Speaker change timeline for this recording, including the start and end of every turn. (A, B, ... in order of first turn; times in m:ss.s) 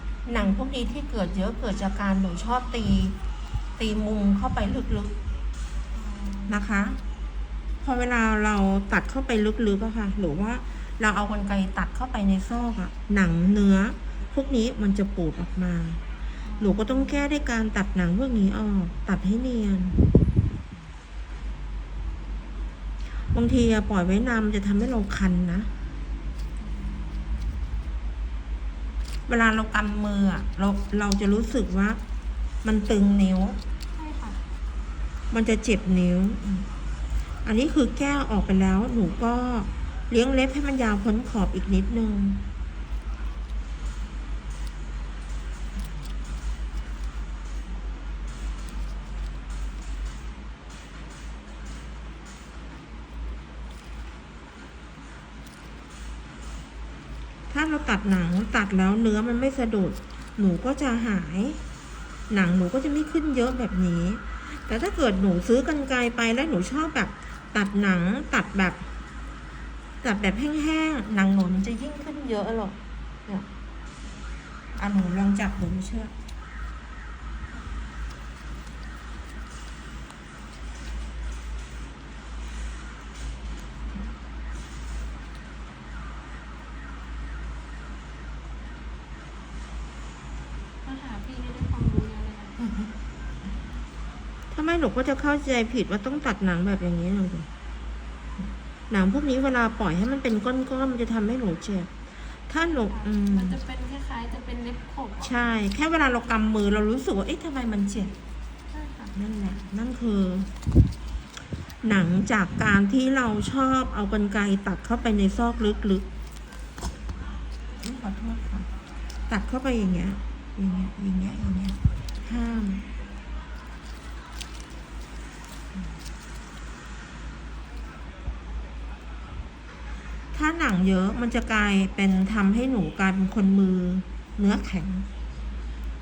0:00.2-0:03.2 A
0:03.8-0:05.1 A
0:05.9-0:06.6 B
0:06.5-0:07.0 A
0:07.8-0:16.0 A
0:16.4-0:17.1 B
0:16.6-0:20.0 A
0:23.2-0:25.7 A
0:29.3-0:32.0 A
0:32.6-0:33.6 A
0:33.9-0:34.4 B
0:35.3-0:36.7 A
0:37.4-0:42.4 A
0:57.5-1:01.6 A
1:02.3-1:08.9 A
1:10.0-1:13.5 A
1:14.8-1:16.1 A
1:30.8-1:33.0 B
1:34.5-1:37.5 A
1:38.9-1:43.6 A
1:42.9-1:45.4 B
1:45.2-1:48.2 A
1:48.7-1:49.1 B
1:49.1-1:50.5 A
1:51.8-1:56.0 A
1:57.8-1:58.7 A
1:59.3-2:02.8 A
2:10.3-2:15.1 A